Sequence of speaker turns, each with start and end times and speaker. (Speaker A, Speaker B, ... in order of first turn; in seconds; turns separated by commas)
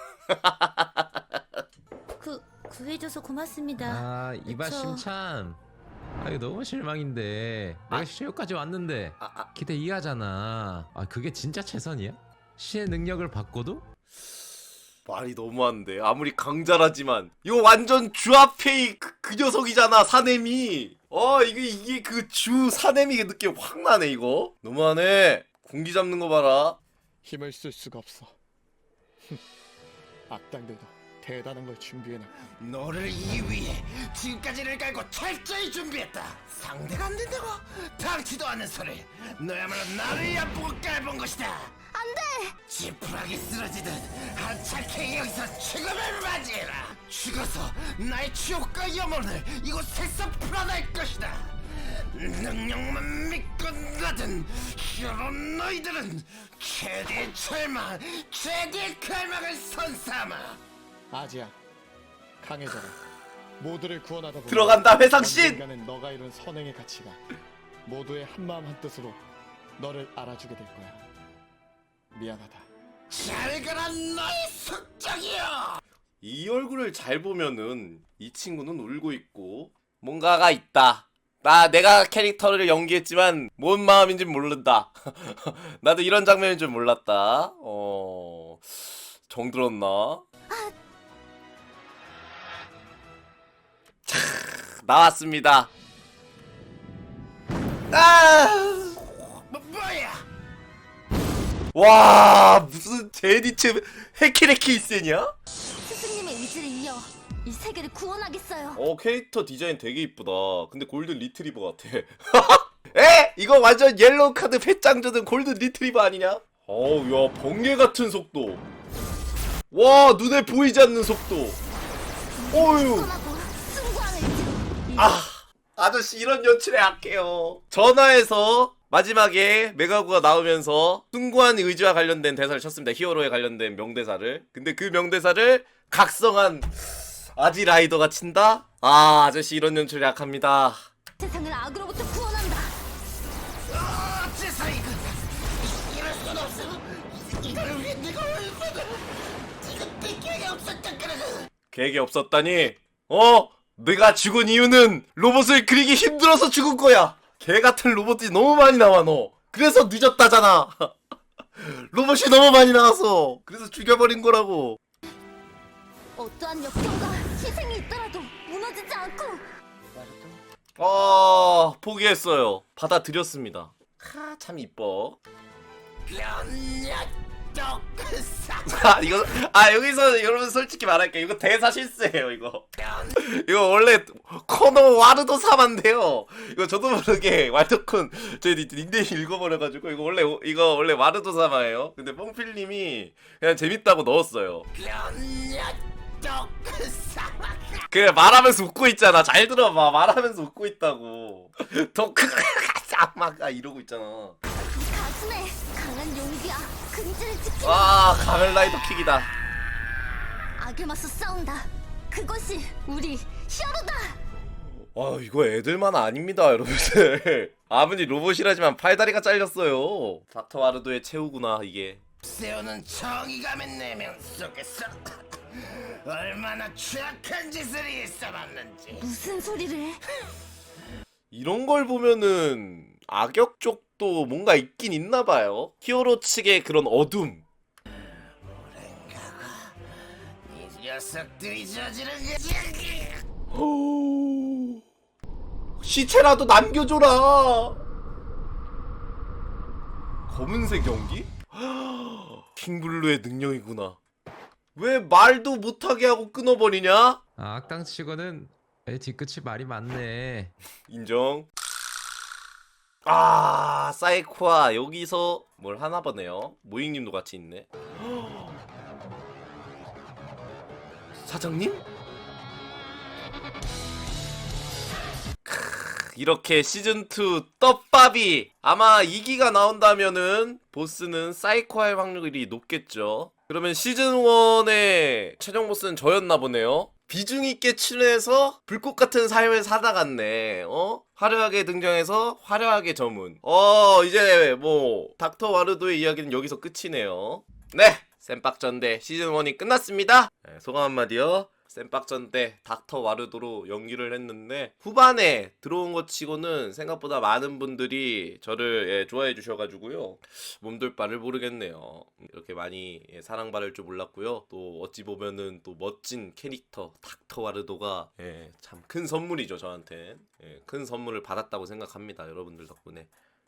Speaker A: 0.3-1.4, Speaker B: 2.2-5.0, Speaker C: 3.8-5.6, Speaker C: 6.2-13.8, Speaker A: 9.2-9.5, Speaker A: 15.1-26.8, Speaker D: 27.2-28.4, Speaker D: 30.3-32.5, Speaker E: 32.6-41.7, Speaker B: 41.9-42.6, Speaker E: 42.6-60.6, Speaker D: 61.1-61.6, Speaker D: 62.4-63.0, Speaker D: 63.6-67.2, Speaker A: 64.5-65.6, Speaker D: 67.8-69.2, Speaker D: 69.8-71.0, Speaker D: 72.1-72.7, Speaker E: 73.1-75.8, Speaker A: 76.2-90.2, Speaker A: 94.0-95.7, Speaker A: 97.9-99.1, Speaker E: 99.5-100.2, Speaker A: 101.7-105.3, Speaker B: 105.8-108.8, Speaker A: 108.8-118.6, Speaker A: 119.7-121.6, Speaker B: 122.3-125.2, Speaker A: 122.5-123.1, Speaker A: 125.0-140.8, Speaker B: 141.2-142.7, Speaker E: 143.7-149.1, Speaker E: 149.6-151.5, Speaker A: 151.7-160.9, Speaker A: 161.6-164.8, Speaker B: 166.2-169.4, Speaker A: 170.1-175.2, Speaker E: 176.1-179.0, Speaker A: 178.7-194.7, Speaker E: 194.7-197.9, Speaker A: 197.9-204.4, Speaker B: 204.7-208.1, Speaker A: 207.6-209.3, Speaker B: 210.6-214.2, Speaker A: 214.8-222.0, Speaker E: 222.2-229.1, Speaker B: 228.9-230.0, Speaker A: 231.3-237.4, Speaker E: 238.5-239.8, Speaker E: 240.5-243.2, Speaker A: 243.5-244.8, Speaker A: 245.8-247.8, Speaker A: 250.3-254.0, Speaker A: 254.8-257.2, Speaker C: 257.4-260.5, Speaker A: 260.9-261.5, Speaker A: 263.1-268.6, Speaker A: 271.2-271.8, Speaker A: 275.4-323.1